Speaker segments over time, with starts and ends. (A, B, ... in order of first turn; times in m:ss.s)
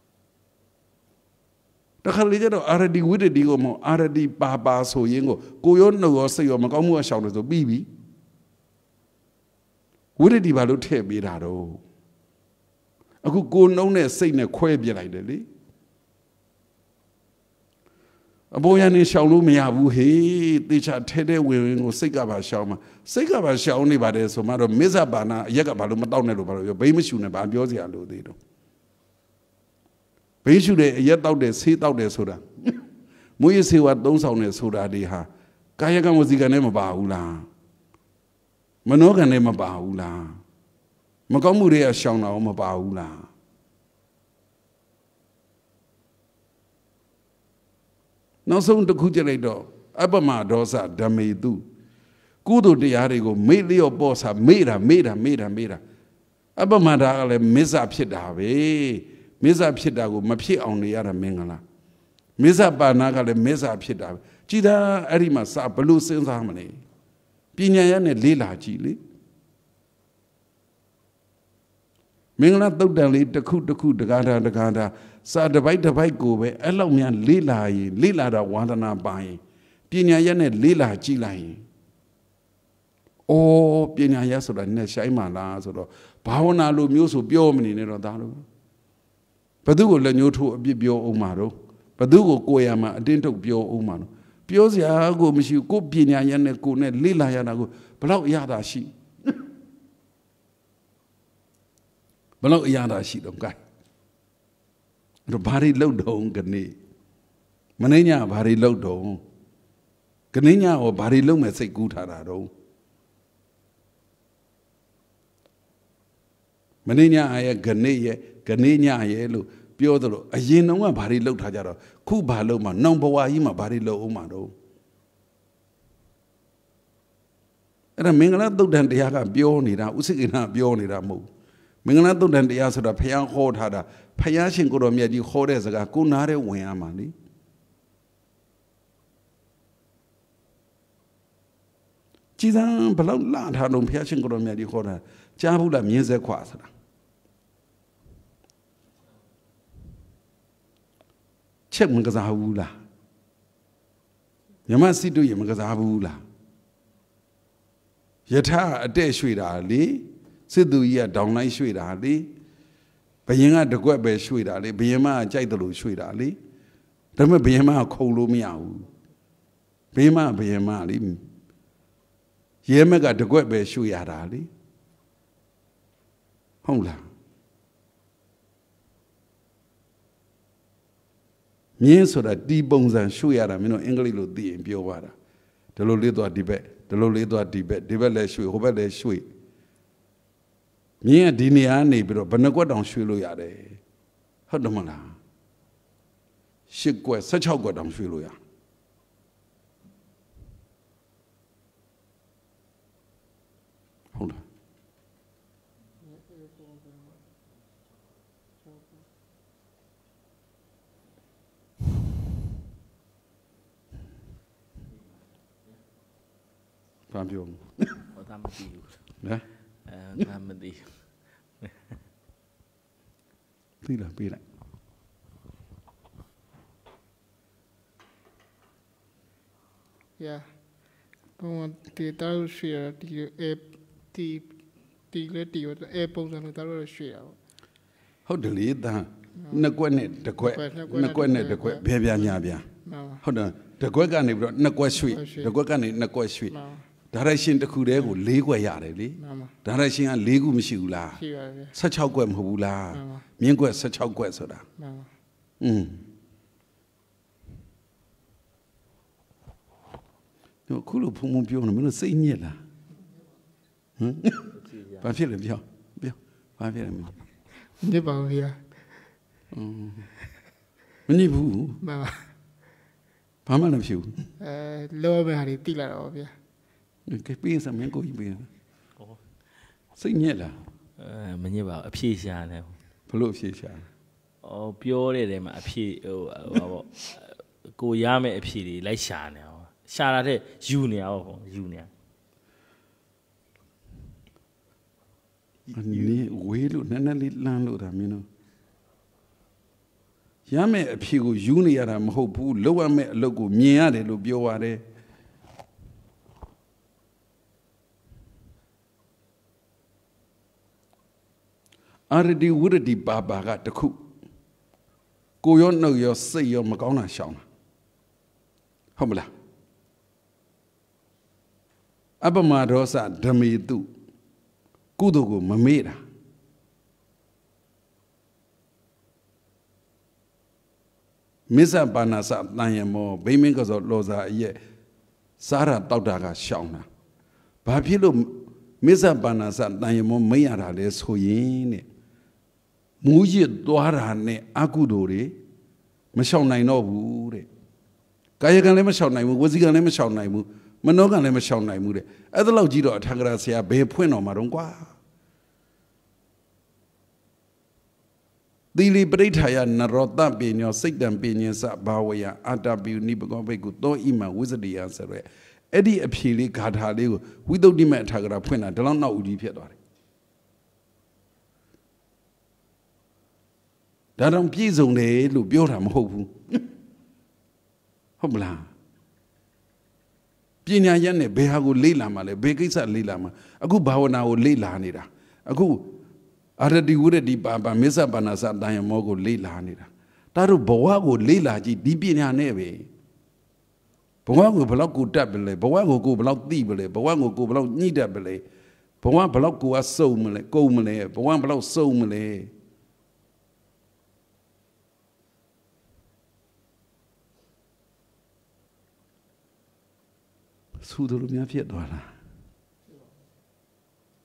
0:02.0-0:07.9 A
0:10.2-0:11.8 A
0:13.2-0:15.5 A
0:18.5-0:28.4 A
0:30.4-0:32.8 A
0:33.4-0:37.5 A
0:38.9-0:40.4 A
0:41.3-0:43.3 A
0:48.5-0:51.6 A
0:52.4-0:55.8 A
0:56.6-1:01.6 A
1:02.4-1:06.8 A
1:07.6-1:09.0 A
1:12.4-1:21.6 A
1:23.3-1:28.4 A
1:29.6-1:38.9 A
1:42.4-1:43.6 A
1:45.3-1:46.8 A
1:47.8-1:49.2 A
1:50.3-1:52.5 A
1:56.9-2:04.5 A
2:08.0-2:11.3 A
2:11.8-2:17.1 A
2:22.4-2:26.7 A
2:31.7-2:32.8 A
2:34.7-2:36.2 A
2:38.3-2:42.3 A
2:43.3-2:46.4 A
2:47.2-2:48.9 A
2:49.9-2:51.2 A
2:52.7-2:54.5 A
2:56.6-2:57.0 A
3:01.8-3:05.1 A
3:05.8-3:09.2 A
3:11.0-3:13.8 A
3:14.5-3:15.2 A
3:16.7-3:18.4 A
3:24.1-3:24.4 A
3:26.0-3:27.2 B
3:37.1-3:38.0 A
3:38.1-3:39.0 C
3:39.9-3:41.1 C
3:43.8-3:44.4 A
3:50.2-3:50.5 B
3:51.4-3:54.5 B
3:55.1-3:57.4 B
3:58.3-4:02.7 A
4:00.4-4:01.8 B
4:02.8-4:03.2 B
4:03.2-4:06.5 A
4:05.0-4:05.5 B
4:06.5-4:06.8 B
4:07.1-4:11.2 A
4:09.2-4:09.5 B
4:11.2-4:11.8 B
4:11.7-4:14.6 A
4:12.9-4:13.2 B
4:14.8-4:15.1 B
4:15.6-4:16.0 A
4:20.7-4:22.6 A
4:24.0-4:24.5 A
4:24.6-4:25.0 C
4:25.0-4:27.2 A
4:27.8-4:28.6 B
4:29.5-4:30.1 A
4:31.1-4:31.8 A
4:31.8-4:32.3 B
4:33.5-4:34.3 A
4:34.4-4:36.3 B
4:37.1-4:38.5 A
4:40.0-4:40.6 A
4:41.0-4:42.8 C
4:43.1-4:43.9 A
4:44.4-4:51.9 C
4:55.7-4:58.3 A
5:00.5-5:04.8 A
5:12.1-5:14.0 A
5:15.4-5:17.4 A
5:19.0-5:19.3 A
5:22.2-5:23.9 A
5:25.0-5:26.0 A
5:31.5-5:34.6 A
5:35.4-5:36.9 A
5:37.6-5:41.8 A
5:43.0-5:45.4 A
5:46.2-5:47.5 A
5:48.4-5:54.9 A
5:58.7-6:09.8 A
6:14.2-6:16.6 A
6:18.2-6:18.7 A
6:20.7-6:25.9 A
6:26.6-6:32.9 A
6:34.3-6:38.4 A
6:39.0-6:42.5 A
6:50.8-6:52.1 A